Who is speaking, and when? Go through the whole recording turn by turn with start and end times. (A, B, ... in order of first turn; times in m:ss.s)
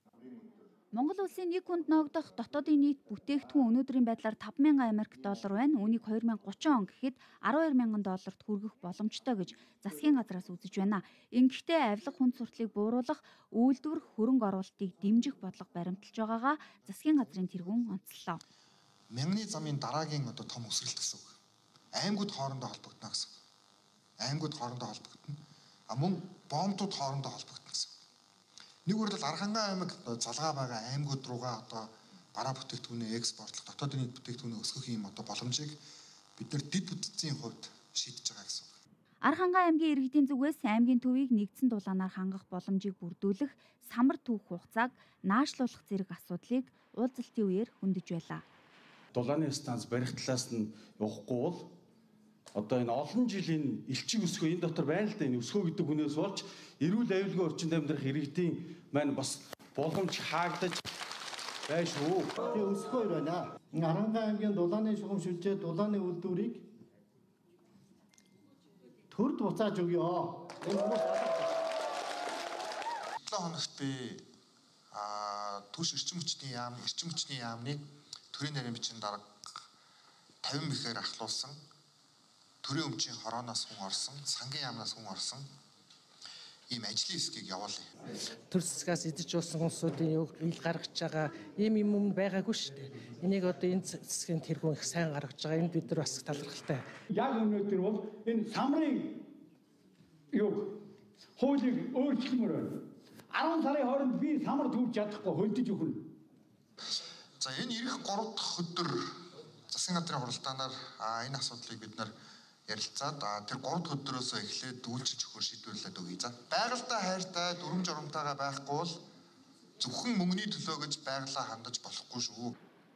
0:00.9-0:18.4 A
0:19.1-0:21.3 B
0:22.0-0:23.4 B
0:24.2-0:25.4 B
0:25.9-0:28.0 B
0:28.9-0:35.8 B
0:36.4-0:38.8 B
0:39.2-0:48.4 A
0:49.1-0:51.7 C
0:52.6-1:00.8 C
1:01.7-1:02.3 C
1:02.5-1:06.6 D
1:09.1-1:11.5 D
1:13.3-1:14.2 B
1:14.9-1:19.6 B
1:20.4-1:21.6 B
1:22.6-1:25.4 B
1:26.7-1:27.8 B
1:28.5-1:36.8 E
1:37.1-1:39.3 F
1:40.3-1:40.8 F
1:41.4-1:46.0 F
1:47.4-1:49.1 B
1:49.7-1:52.1 B
1:52.7-1:59.0 B
1:59.8-2:02.5 B